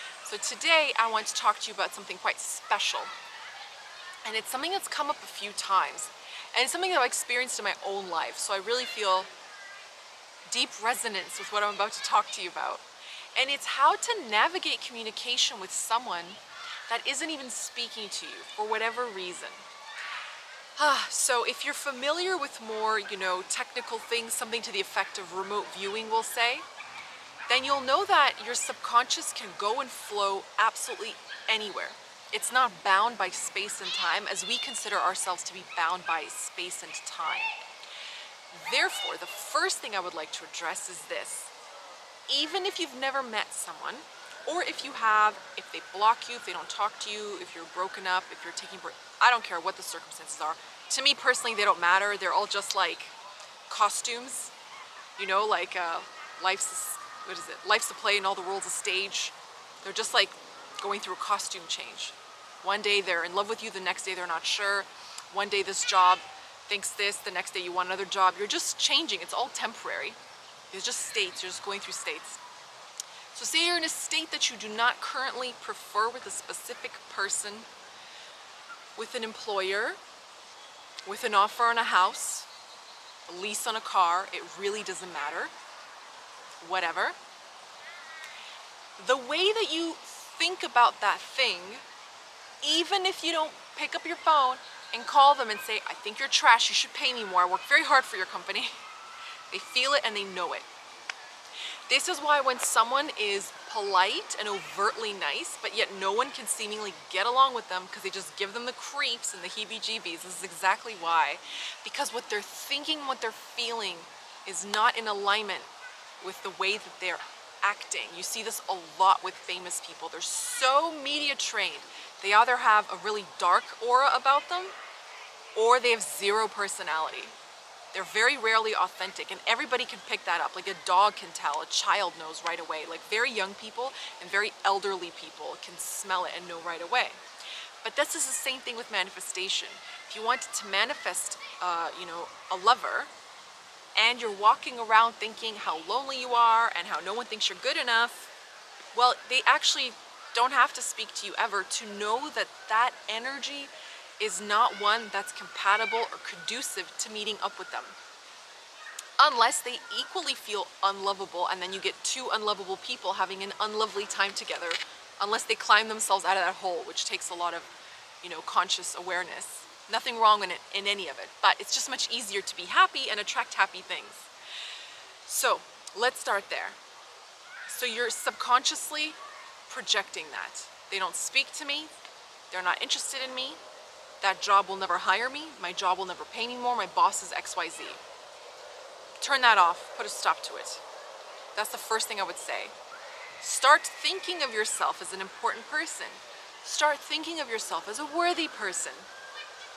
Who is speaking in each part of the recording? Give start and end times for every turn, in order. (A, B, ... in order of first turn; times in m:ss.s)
0:00.2-0:03.1 A
0:04.2-0:09.3 A
0:10.5-0:12.8 A
0:13.4-0:19.6 A
0:20.8-0:26.7 A
0:27.5-0:37.5 A
0:38.5-0:41.5 A
0:42.3-0:53.2 A
0:53.7-0:54.5 A
0:55.2-1:10.2 A
1:10.7-1:12.4 A
1:13.3-1:17.7 A
1:19.0-1:20.0 A
1:21.1-1:22.5 A
1:23.3-1:25.5 A
1:26.6-1:27.2 A
1:29.0-1:31.8 A
1:32.6-1:38.8 A
1:39.5-1:40.7 A
1:41.9-1:55.7 A
1:56.2-2:04.8 A
2:05.6-2:07.4 A
2:07.9-2:17.2 A
2:17.8-2:23.1 A
2:24.0-2:28.3 A
2:29.0-2:38.0 A
2:39.2-2:47.7 A
2:48.2-2:54.3 A
2:55.3-2:56.8 A
2:57.7-3:01.9 A
3:02.5-3:03.6 A
3:04.2-3:08.0 A
3:09.2-3:10.8 A
3:11.6-3:12.7 A
3:13.4-3:19.1 A